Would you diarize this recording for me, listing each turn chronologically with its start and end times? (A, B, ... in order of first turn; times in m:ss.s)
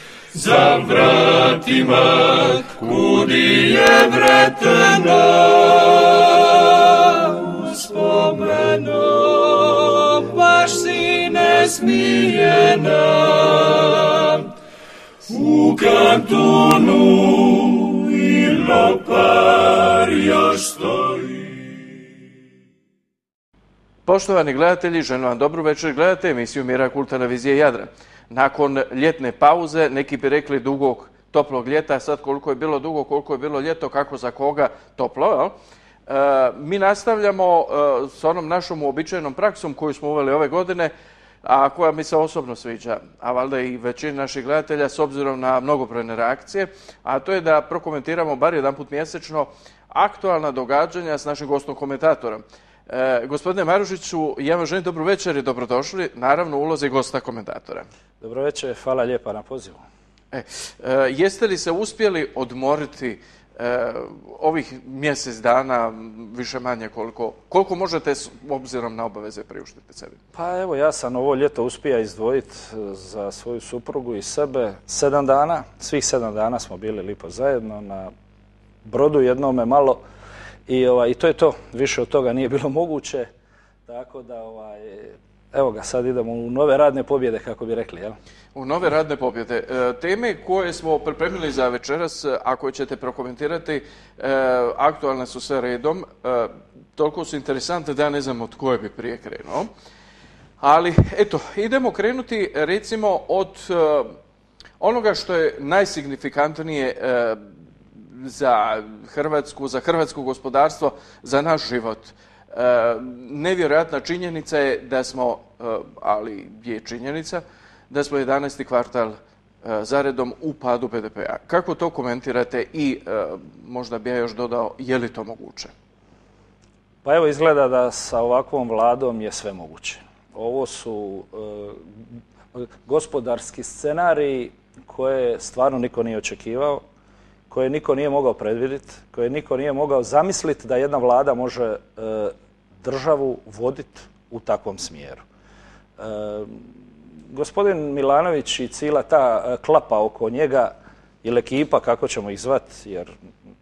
0:00.3-0:14.5 A
0:15.3-0:21.8 A
0:24.1-0:35.6 B
0:36.1-0:40.9 B
0:41.4-0:57.9 B
0:58.2-0:59.8 C
1:00.3-1:10.2 B
1:10.4-1:18.1 C
1:18.8-1:20.0 C
1:20.7-1:23.3 C
1:23.9-1:28.2 C
1:28.6-1:39.7 B
1:40.6-1:44.2 B
1:44.8-2:05.7 B
2:07.0-2:11.8 C
2:12.6-2:16.8 C
2:17.5-2:25.2 C
2:26.0-2:26.6 C
2:27.3-2:33.1 C